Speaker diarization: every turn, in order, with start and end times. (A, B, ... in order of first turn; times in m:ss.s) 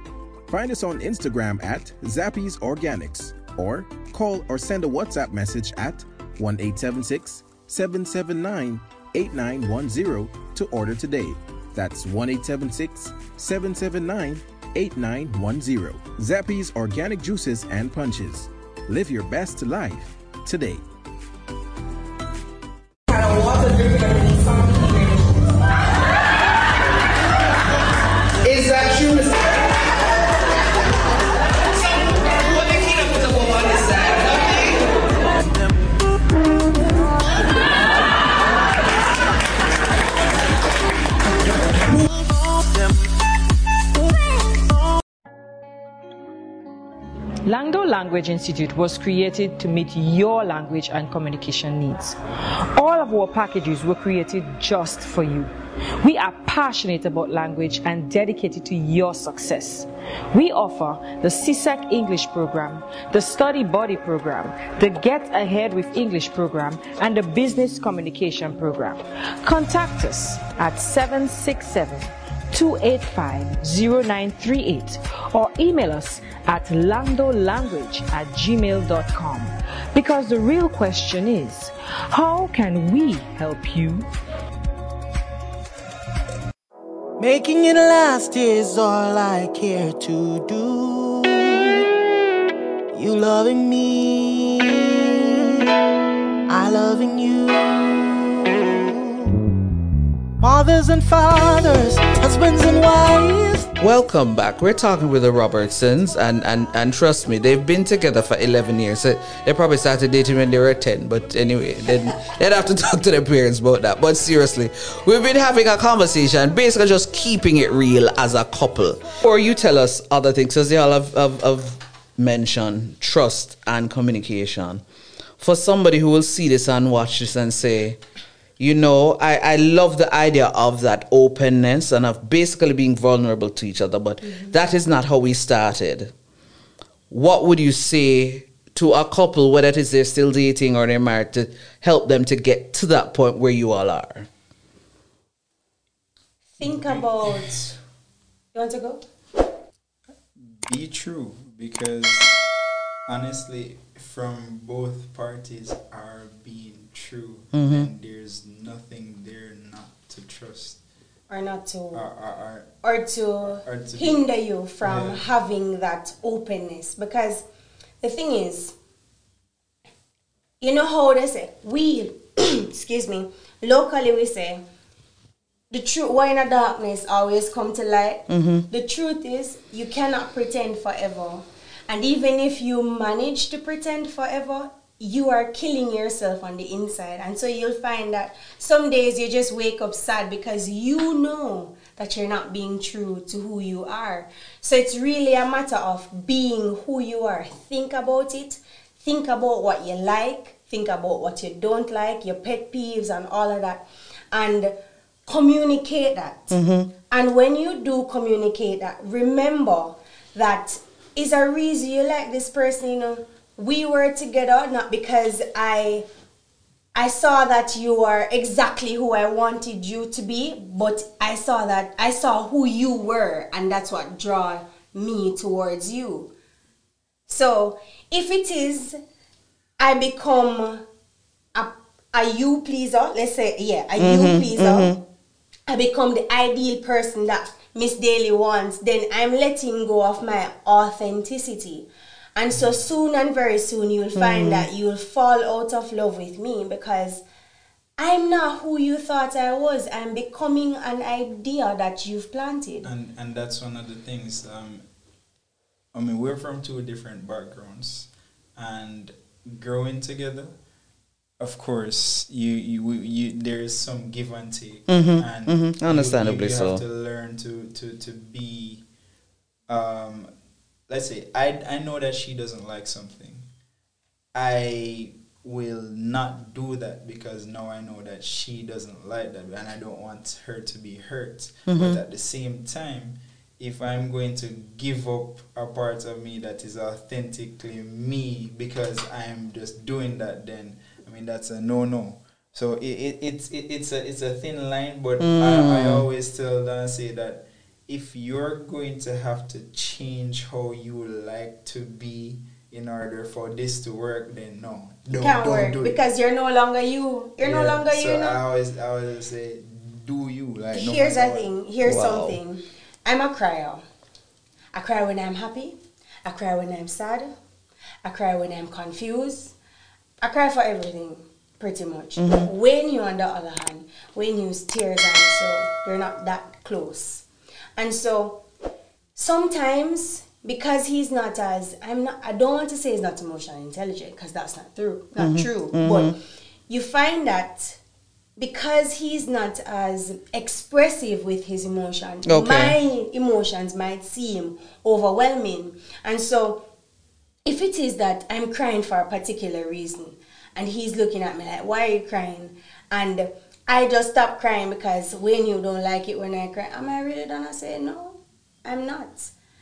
0:00.5-0:20.8 A
0:23.1-0:25.4 B
0:28.4-0:29.5 C
0:31.7-0:34.9 D
0:47.4-0:52.2 B
0:52.7-1:24.1 B
1:27.2-1:31.8 E
1:32.9-1:35.0 E
1:36.5-1:39.3 E
1:40.4-1:43.7 E
1:43.8-2:04.8 D
2:05.4-2:08.0 D
2:08.6-2:16.1 D
2:17.1-2:24.3 D
2:26.5-2:27.8 F
2:26.6-2:27.8 C
2:28.5-2:29.0 F
2:30.4-2:32.4 C
2:33.1-2:40.8 C
2:37.5-2:37.9 D
2:41.3-2:42.0 F
2:41.9-2:42.7 C
2:42.8-2:47.4 F
2:43.6-2:44.2 C
2:44.8-2:45.2 C
2:48.0-2:48.7 F
2:50.6-2:54.6 F
2:55.7-3:24.8 F
2:58.3-2:58.6 D
3:25.2-3:26.6 F
3:26.5-3:26.9 D
3:27.1-3:36.0 F
3:37.0-3:46.3 F
3:47.3-3:49.0 F
3:49.8-3:50.8 F
3:51.6-3:55.0 F
3:54.0-3:55.0 D
3:55.7-4:07.2 F
4:02.5-4:02.8 C
4:04.2-4:04.7 D
4:08.0-4:12.9 F
4:12.8-4:14.8 C
4:15.9-4:20.5 C
4:21.4-4:28.8 C
4:24.9-4:26.8 D
4:29.7-4:30.3 C
4:30.9-4:33.5 C
4:34.3-5:06.0 C
4:41.7-4:42.0 D
4:55.2-4:56.0 D
5:05.1-5:08.4 F
5:07.4-5:11.5 C
5:10.7-5:13.8 F
5:11.8-5:12.4 D
5:14.7-5:17.3 F
5:18.0-5:19.6 F
5:20.2-5:27.2 F
5:22.2-5:22.5 D
5:27.8-5:28.4 F
5:29.2-5:36.2 F
5:35.2-5:36.2 D
5:36.7-5:37.8 F
5:38.4-5:46.6 F
5:42.2-5:42.8 D
5:47.4-5:59.3 F